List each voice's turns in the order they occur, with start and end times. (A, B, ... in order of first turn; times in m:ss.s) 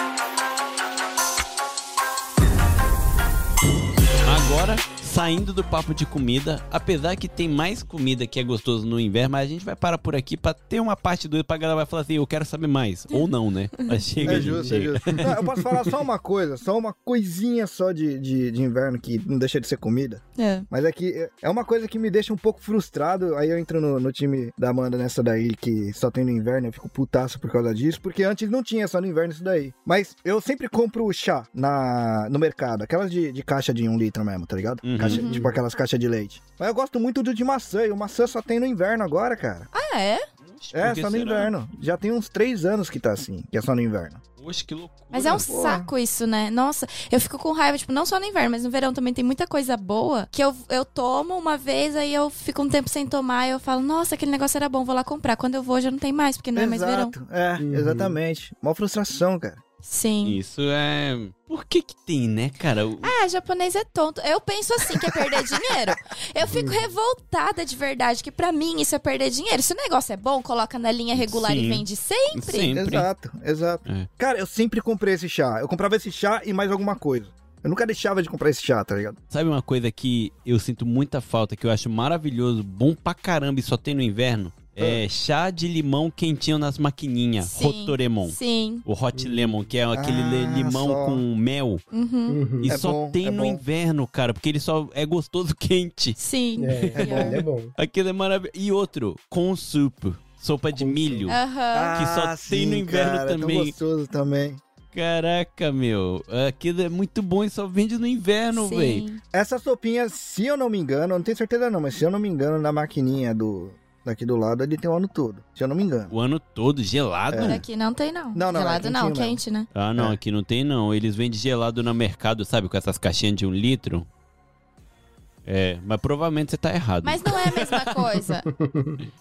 0:04.2-0:15.4 A
0:14.2-0:39.7 B
0:14.2-0:14.6 C
0:20.4-0:20.7 D
0:34.8-0:35.2 A
0:35.1-0:35.4 D
0:35.2-0:35.6 C
0:39.7-0:40.3 D
0:40.4-0:41.5 A
0:40.7-0:44.2 B
0:44.4-0:45.5 A
0:45.1-0:57.2 D
0:45.4-0:45.9 B
0:56.6-0:59.6 B
0:57.6-0:58.2 C
0:59.8-1:00.4 D
1:00.2-1:03.1 A
1:03.0-1:12.7 D
1:06.5-1:06.8 C
1:11.2-1:13.1 A
1:12.7-1:19.2 B
1:19.3-1:31.8 A
1:27.5-1:28.8 D
1:29.2-1:29.7 C
1:29.9-1:31.2 B
1:31.9-1:32.4 D
1:32.3-1:32.8 C
1:32.7-1:36.2 A
1:32.7-1:33.6 B
1:36.2-1:37.4 D
1:36.6-1:37.7 C
1:37.0-1:41.4 A
1:40.8-1:41.3 C
1:41.3-1:42.0 D
1:41.7-1:44.6 B
1:42.0-1:43.8 A
1:44.9-1:49.0 A
1:48.5-1:49.2 D
1:49.3-1:56.1 B
1:56.1-1:57.6 A
1:57.3-1:57.6 B
1:57.4-1:59.7 D
1:58.3-1:59.4 B
1:59.7-2:04.1 A
2:05.4-2:07.9 A
2:07.0-2:08.5 D
2:08.6-2:09.0 C